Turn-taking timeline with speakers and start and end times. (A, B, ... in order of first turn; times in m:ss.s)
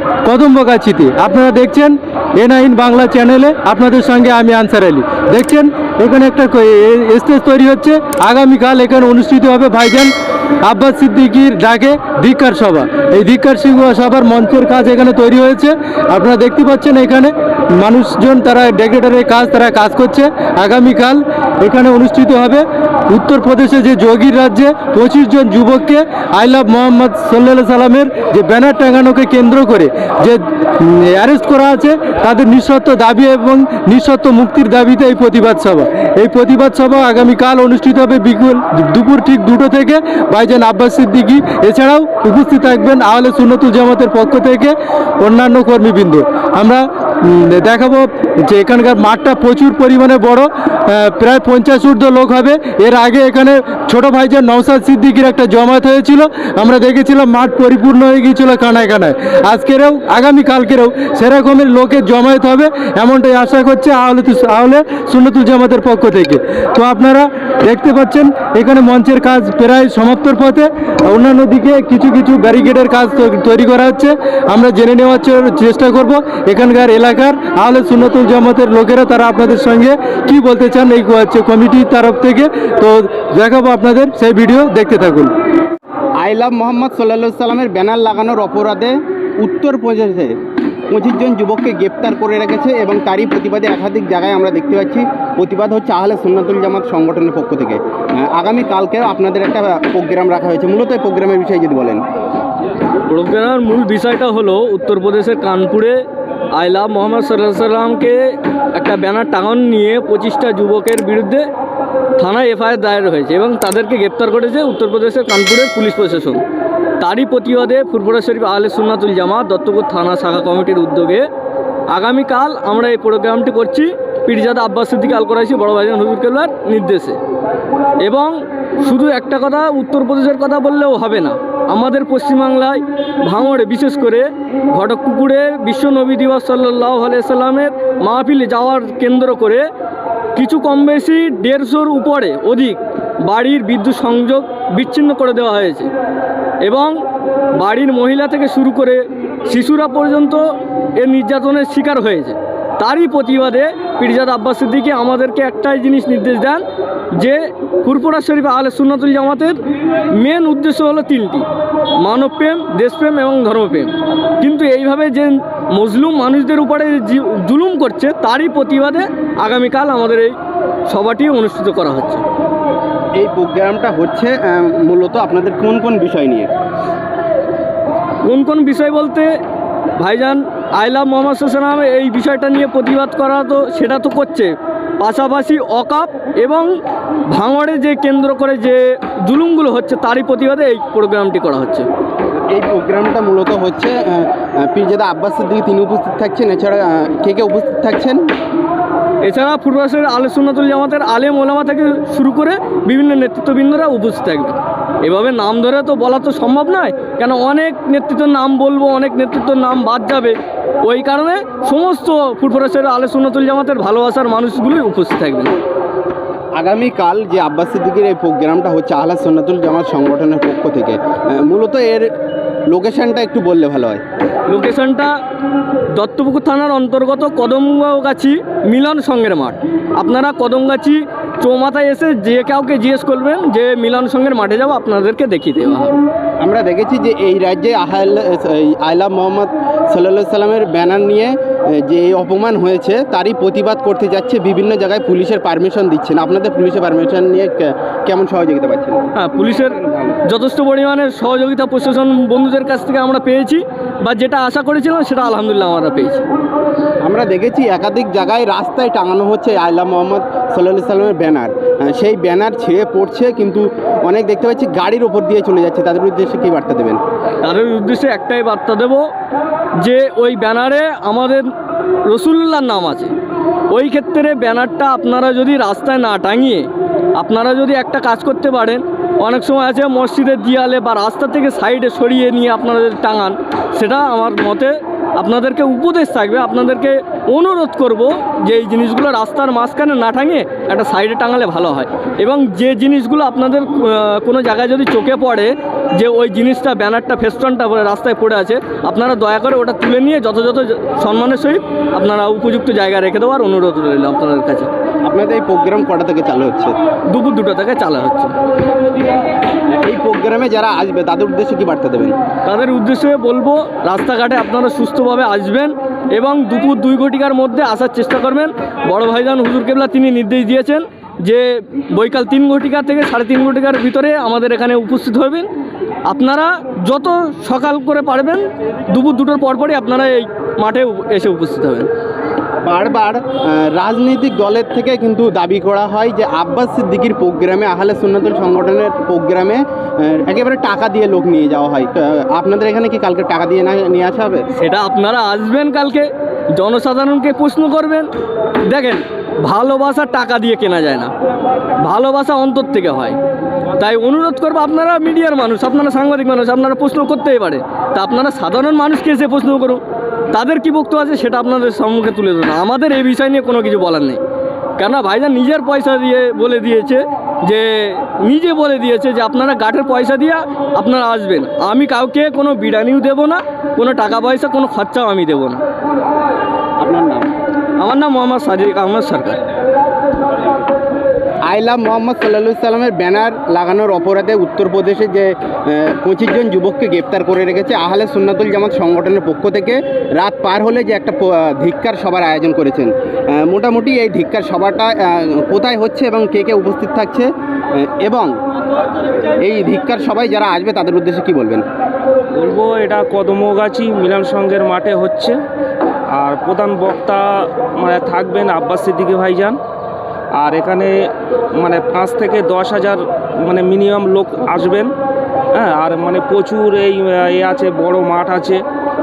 0:00.2-0:10.1 A
0:10.6-1:25.3 A
1:26.2-1:30.3 B
1:30.9-1:42.0 B
1:43.1-1:46.0 C
1:46.5-1:51.4 C
1:52.2-1:56.4 C
1:57.0-2:01.2 C
2:01.9-2:07.2 C
2:08.0-2:19.6 C
2:20.4-2:25.9 C
2:26.6-2:27.0 C
2:27.6-2:30.4 C
2:31.0-2:36.6 C
2:37.2-2:39.6 C
2:40.1-2:41.5 C
2:42.0-2:50.3 C
2:50.9-2:52.2 C
2:53.2-2:56.5 B
2:58.2-2:59.3 C
3:00.0-3:06.7 C
3:07.3-3:11.8 C
3:12.5-3:18.2 B
3:19.2-3:35.5 C
3:36.6-3:42.1 B
3:42.7-3:44.0 B
3:44.5-3:45.1 C
3:45.9-3:56.0 C
3:56.4-4:09.1 B
4:09.1-4:16.2 C
4:17.0-4:27.0 B
4:27.4-4:29.0 C
4:29.8-4:31.5 C
4:32.0-4:33.1 C
4:33.7-5:04.7 C
5:05.0-5:06.8 B
5:07.1-5:08.3 C
5:09.8-5:12.2 B
5:12.4-5:25.5 C
5:26.1-5:31.9 C
5:32.6-5:44.4 B
5:44.6-5:48.1 C
5:48.6-5:51.1 C
5:51.8-5:53.2 C
5:53.8-6:04.2 C
6:04.8-6:15.6 C
6:16.8-6:17.3 B
6:17.8-6:19.4 C
6:21.4-6:38.3 B
6:39.4-6:41.6 B
6:42.3-6:45.4 D
6:46.1-6:49.6 D
6:50.4-6:51.0 D
6:51.6-6:54.9 D
6:55.5-6:58.6 D